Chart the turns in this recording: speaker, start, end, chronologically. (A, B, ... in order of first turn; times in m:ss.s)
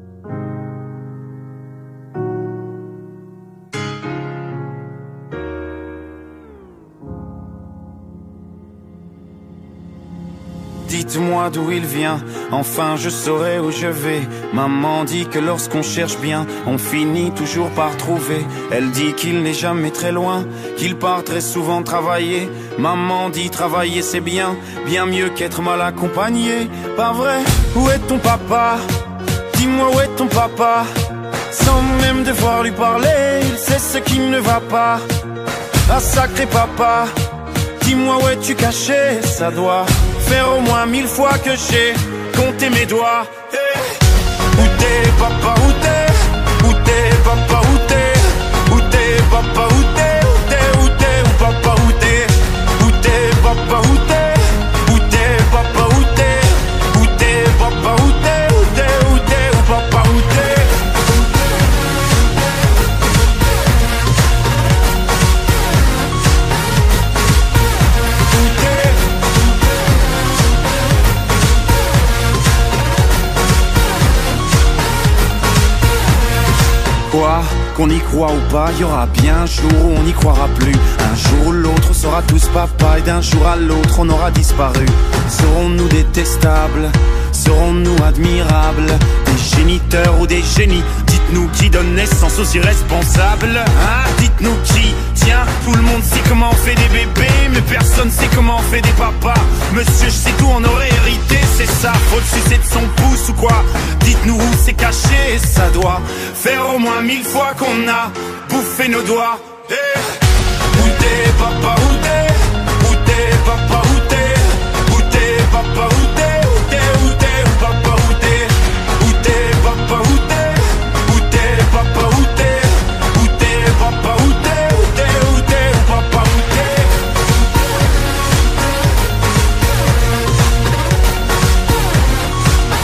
0:10.8-0:28.9 A
0:29.5-0:35.1 A
0:35.8-1:00.9 A
1:17.0-2:07.1 A